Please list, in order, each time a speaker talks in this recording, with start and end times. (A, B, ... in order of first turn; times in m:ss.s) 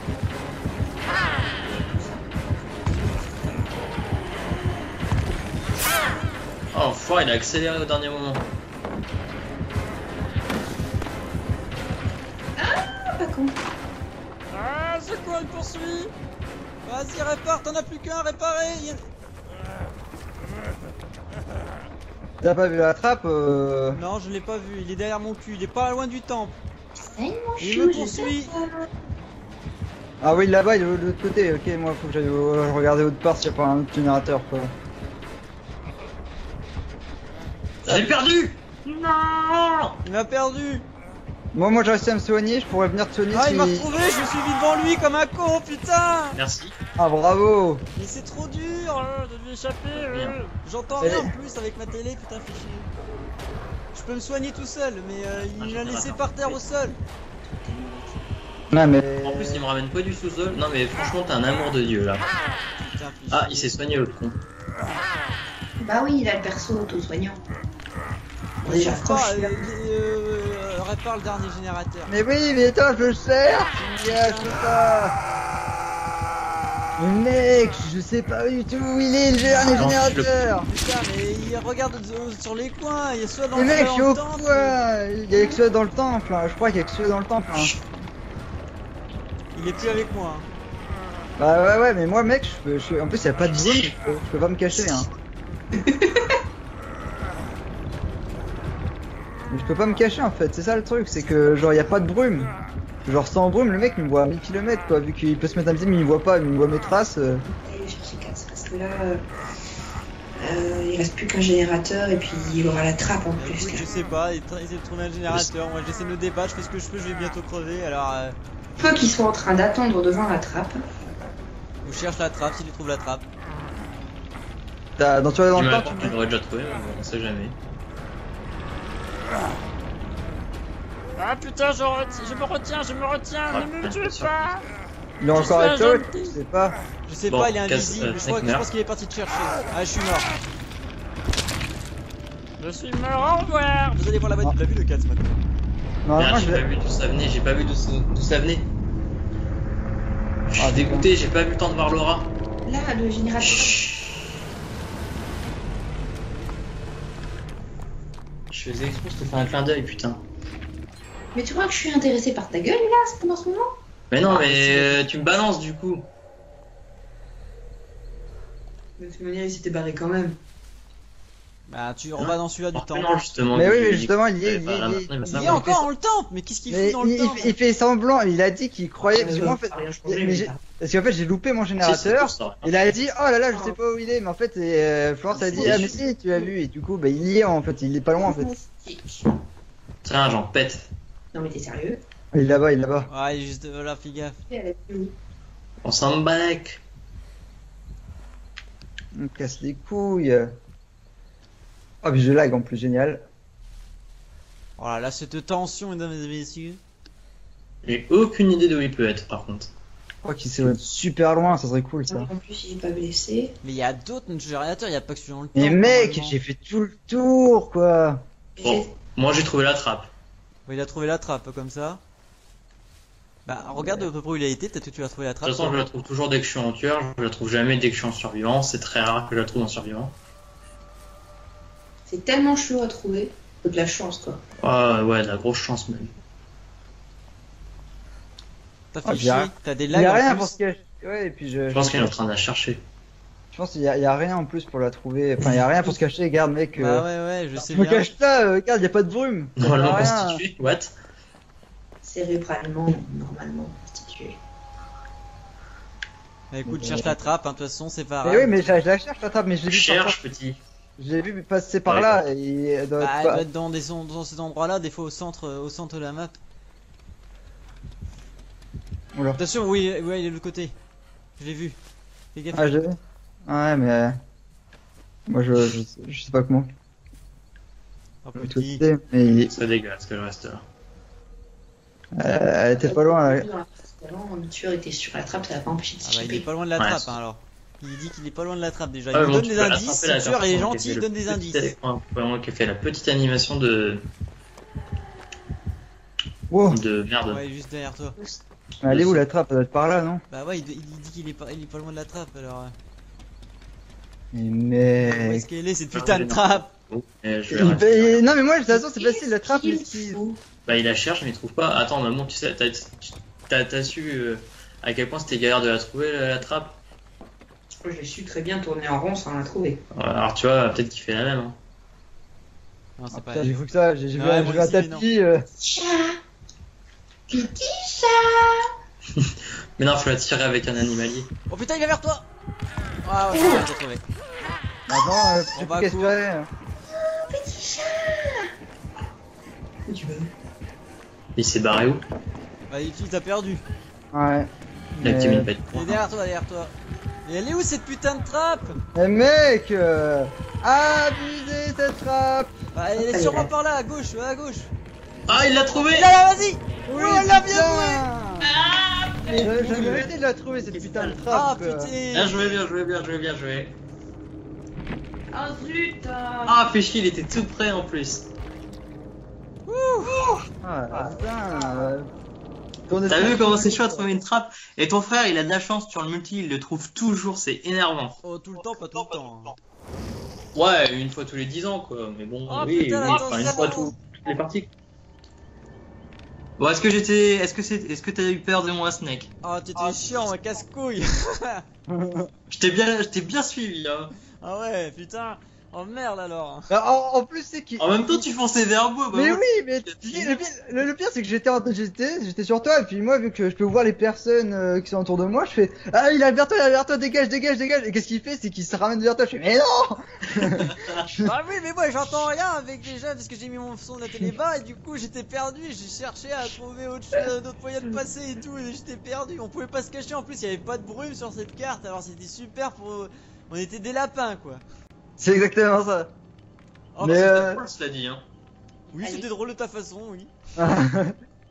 0:01.6-0:03.1 A
0:06.7-0:08.4 B
0:12.6-0:13.6 A
0:14.6-0:16.1 C
0:16.8-0:19.0 C
0:22.4-0:24.0 D
0:23.9-0:26.6 C
0:27.0-0:28.9 A
0:27.6-0:28.5 C
0:30.2-0:34.7 D
0:37.8-0:40.0 B
0:40.0-0:40.8 C
0:41.5-0:43.9 D
0:43.3-0:46.4 C
0:46.3-0:46.7 B
0:47.0-0:47.9 D
0:48.0-0:52.9 C
0:49.9-0:50.4 B
0:51.0-0:51.3 D
0:53.9-0:57.0 C
0:55.5-0:56.6 B
0:57.4-0:58.2 A
0:58.7-0:59.6 D
0:59.2-1:02.3 B
1:02.8-1:03.7 C
1:03.3-1:04.4 B
1:05.8-1:07.4 A
1:08.6-1:09.7 A
1:08.6-1:12.1 C
1:12.1-1:15.2 D
1:13.7-1:14.7 C
1:17.0-1:20.7 D
1:19.5-1:20.0 C
1:19.7-1:20.3 B
1:20.6-1:24.8 C
1:23.5-1:27.7 D
1:25.3-1:25.6 A
1:29.5-1:30.4 C
1:31.4-1:35.1 D
1:35.7-1:36.4 A
1:39.5-1:42.5 D
1:43.0-1:47.4 D
1:47.4-1:49.2 A
1:50.4-1:53.8 A
1:53.4-1:58.4 C
1:58.8-2:00.8 A
2:01.8-2:03.2 C
2:05.0-2:06.2 D
2:05.5-2:07.6 B
2:11.2-2:14.5 C
2:13.5-2:14.4 B
2:15.2-2:16.7 D
2:15.3-2:16.3 C
2:17.0-2:20.3 C
2:17.3-2:18.7 B
2:22.6-2:25.4 C
2:26.0-2:26.6 D
2:26.2-2:28.7 B
2:30.5-2:32.3 B
2:30.6-2:31.1 D
2:32.6-2:33.8 A
2:33.4-2:34.2 B
2:38.5-2:40.2 B
2:41.3-2:43.7 A
2:44.1-2:46.1 B
2:44.2-2:45.0 C
2:49.0-2:50.4 A
2:51.7-2:53.1 C
2:52.2-2:55.8 B
2:53.5-2:55.6 D
2:55.3-2:57.5 C
2:56.7-3:08.5 D
2:59.1-3:00.6 A
3:01.8-3:02.7 B
3:05.3-3:06.5 A
3:05.5-3:06.0 B
3:08.2-3:09.3 A
3:10.0-3:10.9 B
3:11.3-3:12.0 A
3:12.3-3:13.1 D
3:13.1-3:14.4 C
3:14.5-3:15.1 A
3:15.8-3:16.8 B
3:19.1-3:20.5 D
3:22.0-3:23.2 D
3:24.8-3:26.8 C
3:27.8-3:29.7 B
3:30.2-3:32.3 D
3:32.1-3:33.5 A
3:33.6-3:36.4 C
3:35.5-3:38.2 D
3:38.6-3:38.9 A
3:38.6-3:40.1 B
3:40.7-3:42.0 C
3:43.4-3:45.8 C
3:45.4-3:50.2 B
3:52.1-3:54.4 A
3:54.6-3:56.1 B
3:58.9-4:00.6 C
3:59.0-4:02.1 D
4:01.7-4:02.8 B
4:03.5-4:07.0 D
4:06.8-4:08.1 C
4:07.7-4:10.4 D
4:09.6-4:10.9 B
4:12.0-4:14.4 A
4:16.5-4:18.7 C
4:16.7-4:17.1 D
4:18.2-4:20.2 D
4:19.7-4:20.6 B
4:21.0-4:23.4 D
4:21.9-4:22.2 B
4:23.0-4:26.4 C
4:29.1-4:29.4 D
4:29.4-4:30.7 C
4:31.4-4:31.8 C
4:32.3-4:32.9 C
4:32.5-4:34.2 D
4:35.3-4:36.7 D
4:38.2-4:38.8 C
4:38.4-4:39.5 D
4:39.2-4:40.6 B
4:42.2-4:43.5 D
4:42.8-4:46.5 A
4:46.0-4:51.7 C
4:46.8-4:47.2 B
4:49.1-4:54.1 B
4:56.5-4:56.8 D
4:56.7-4:57.4 B
4:57.3-4:58.2 C
4:58.8-5:00.2 D
4:58.8-4:59.2 B
5:00.3-5:02.7 C
5:04.3-5:05.4 D
5:05.0-5:06.7 C
5:05.9-5:08.4 B
5:07.5-5:10.2 D
5:08.7-5:10.4 A
5:10.6-5:16.8 B
5:17.8-5:19.8 A
5:19.9-5:21.6 B
5:23.0-5:23.5 C
5:23.1-5:25.4 D
5:24.2-5:25.0 C
5:25.6-5:26.2 A
5:27.3-5:28.7 A
5:29.1-5:31.3 B
5:31.5-5:32.2 C
5:33.0-5:34.0 C
5:33.3-5:33.6 A
5:34.9-5:36.5 D
5:35.5-5:36.2 C
5:37.0-5:38.5 A
5:39.9-5:40.3 A
5:41.4-5:42.0 B
5:42.7-5:43.6 C
5:44.1-5:45.5 D
5:45.0-5:46.0 B
5:45.7-5:46.7 C
5:47.2-5:48.8 C
5:48.9-5:52.5 D
5:52.7-5:54.7 C
5:53.0-5:53.5 A
5:55.3-5:56.1 B
5:55.8-5:58.0 C
5:56.8-5:58.5 D
5:58.4-6:00.1 A
5:59.3-6:01.9 D
5:59.4-6:00.0 C
5:59.7-6:00.0 B
6:00.6-6:01.2 B
6:01.3-6:02.6 C
6:02.1-6:03.7 B
6:05.3-6:06.6 A
6:06.4-6:08.3 B
6:09.7-6:10.1 C
6:10.2-6:11.9 A
6:10.6-6:12.1 D
6:12.9-6:14.1 D
6:13.0-6:19.2 B
6:18.2-6:19.5 C
6:20.5-6:24.7 B
6:22.5-6:23.9 C
6:23.2-6:23.7 A
6:26.6-6:29.3 B
6:29.4-6:31.6 C
6:29.9-6:30.2 B
6:31.9-6:32.3 D
6:32.5-6:34.1 B
6:34.4-6:36.7 C
6:36.7-6:38.2 D
6:37.8-6:40.5 B
6:39.1-6:51.3 D
6:50.4-6:51.1 B
6:51.2-7:04.6 C
7:05.2-7:06.1 D
7:06.9-7:07.4 C
7:07.0-7:07.6 D
7:07.0-7:08.2 B
7:08.9-7:10.3 C
7:09.0-7:09.3 A
7:10.6-7:11.1 D